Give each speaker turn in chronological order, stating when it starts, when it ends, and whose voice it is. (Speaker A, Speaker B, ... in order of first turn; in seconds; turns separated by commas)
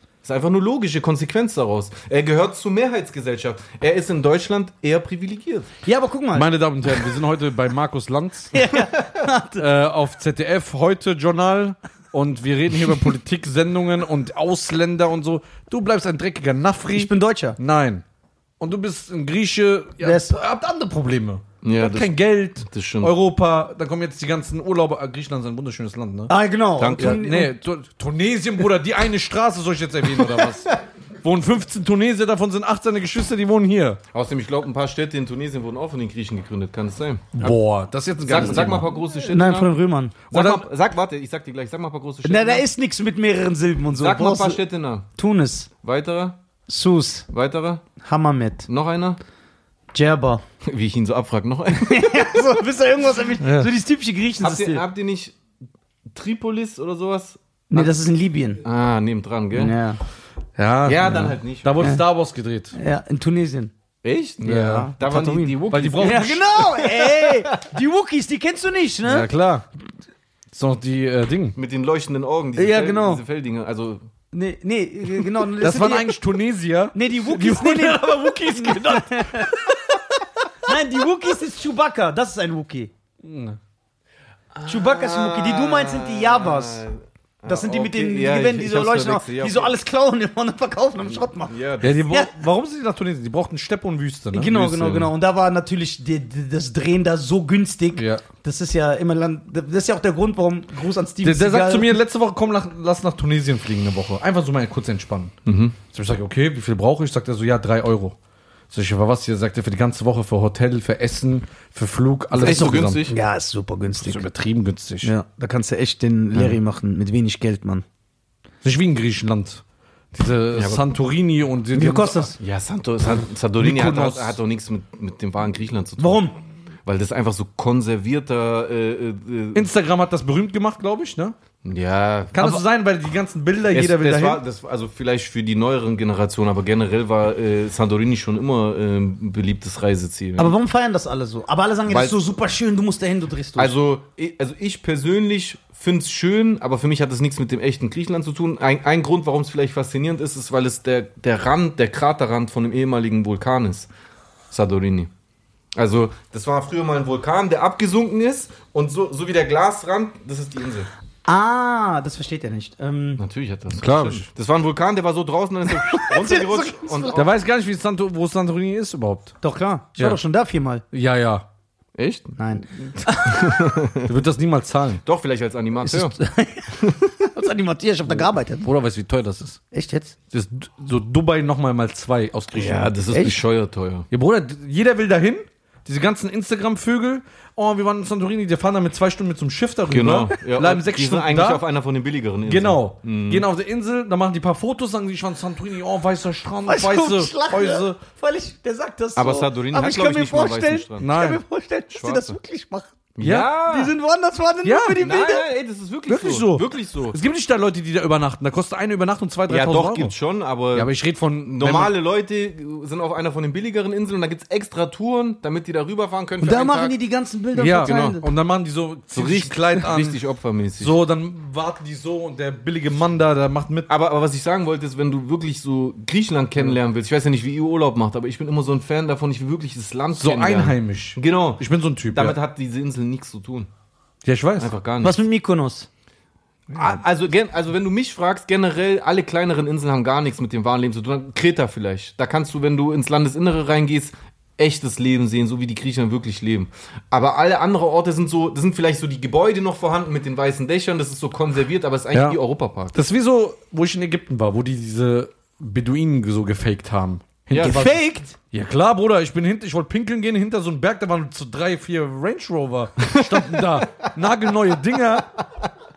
Speaker A: 0.2-5.7, Speaker B: 5.8-6.5, Speaker C: 6.3-8.7, Speaker B: 8.5-9.6, Speaker C: 9.6-18.0, Speaker B: 16.9-17.6, Speaker C: 18.6-26.3, Speaker B: 20.0-20.4, Speaker A: 21.6-22.1, Speaker A: 22.7-23.1, Speaker B: 26.3-27.5, Speaker A: 26.8-27.2, Speaker C: 27.0-34.0, Speaker A: 30.2-30.5, Speaker A: 34.1-37.6, Speaker C: 37.4-38.9, Speaker A: 38.2-39.7, Speaker B: 39.2-40.2, Speaker A: 40.3-42.7, Speaker C: 40.3-40.7, Speaker B: 42.2-44.6, Speaker A: 44.0-45.1, Speaker B: 45.2-45.7, Speaker A: 45.8-46.4, Speaker B: 46.7-47.3, Speaker A: 47.3-47.8, Speaker B: 48.0-48.7, Speaker A: 48.7-49.2, Speaker B: 49.9-50.4, Speaker A: 50.6-52.6, Speaker B: 51.7-54.8, Speaker C: 53.4-53.7, Speaker A: 54.4-55.4, Speaker A: 56.1-57.9, Speaker B: 57.7-58.6, Speaker A: 58.6-59.7, Speaker B: 59.5-60.0, Speaker C: 60.6-62.8, Speaker A: 60.9-61.8, Speaker B: 62.7-63.7, Speaker A: 64.0-67.6, Speaker C: 64.4-64.9, Speaker B: 64.4-69.3, Speaker C: 65.7-66.6, Speaker C: 69.0-69.7, Speaker C: 70.5-71.6, Speaker A: 71.6-74.0, Speaker B: 72.6-73.2, Speaker B: 74.3-76.2, Speaker C: 75.6-79.8, Speaker B: 76.9-79.8, Speaker B: 80.6-82.9, Speaker C: 83.2-83.6, Speaker A: 84.5-89.8, Speaker B: 84.7-86.8, Speaker B: 87.5-92.3, Speaker A: 91.5-92.1, Speaker C: 91.8-95.0, Speaker B: 94.3-102.0, Speaker A: 94.5-95.0, Speaker C: 98.0-98.2, Speaker C: 101.2-105.3, Speaker A: 105.5-105.8, Speaker C: 105.9-108.2, Speaker C: 108.7-113.0, Speaker A: 112.3-113.2, Speaker B: 113.0-114.3, Speaker C: 114.0-115.1, Speaker B: 115.0-117.8, Speaker C: 118.6-122.3, Speaker A: 120.5-120.8, Speaker B: 121.7-122.4, Speaker A: 122.4-126.2, Speaker C: 123.6-124.4, Speaker B: 126.0-126.3, Speaker A: 126.9-129.7, Speaker C: 129.5-131.4, Speaker A: 131.6-132.6, Speaker C: 132.3-134.4, Speaker A: 133.7-140.5, Speaker B: 140.4-143.7, Speaker A: 141.9-142.2, Speaker A: 143.6-153.9, Speaker A: 154.5-155.1, Speaker A: 155.8-160.9, Speaker B: 161.3-163.2, Speaker A: 163.2-167.3, Speaker C: 163.7-164.3, Speaker B: 165.8-167.3, Speaker C: 167.1-169.4, Speaker B: 169.4-170.8, Speaker C: 170.9-171.5, Speaker A: 171.9-174.1, Speaker B: 172.4-173.5, Speaker C: 174.0-175.0, Speaker A: 175.1-176.2, Speaker B: 175.8-178.7, Speaker C: 178.1-179.6, Speaker B: 179.7-180.2, Speaker C: 180.3-183.0, Speaker A: 182.6-184.1, Speaker B: 183.1-183.4, Speaker C: 184.1-191.6, Speaker A: 189.9-193.5, Speaker C: 192.5-198.0, Speaker B: 196.7-202.9, Speaker A: 199.2-201.1, Speaker C: 201.0-201.4, Speaker A: 201.9-202.4, Speaker A: 203.2-203.9, Speaker C: 203.2-203.5, Speaker B: 203.7-205.5, Speaker C: 204.6-205.0, Speaker A: 205.0-207.2, Speaker C: 206.1-210.1, Speaker A: 209.5-210.9, Speaker C: 210.7-211.9, Speaker A: 211.5-216.9, Speaker B: 216.4-218.3, Speaker C: 217.6-220.2, Speaker A: 217.6-218.2, Speaker A: 219.1-220.9, Speaker C: 220.8-223.9, Speaker A: 223.9-233.7, Speaker C: 230.2-232.4, Speaker C: 234.2-234.7, Speaker A: 234.6-235.2, Speaker B: 235.0-235.9, Speaker A: 236.7-252.9, Speaker C: 252.1-252.4, Speaker C: 252.9-265.3, Speaker A: 257.5-257.8, Speaker B: 257.6-258.3, Speaker A: 263.1-264.1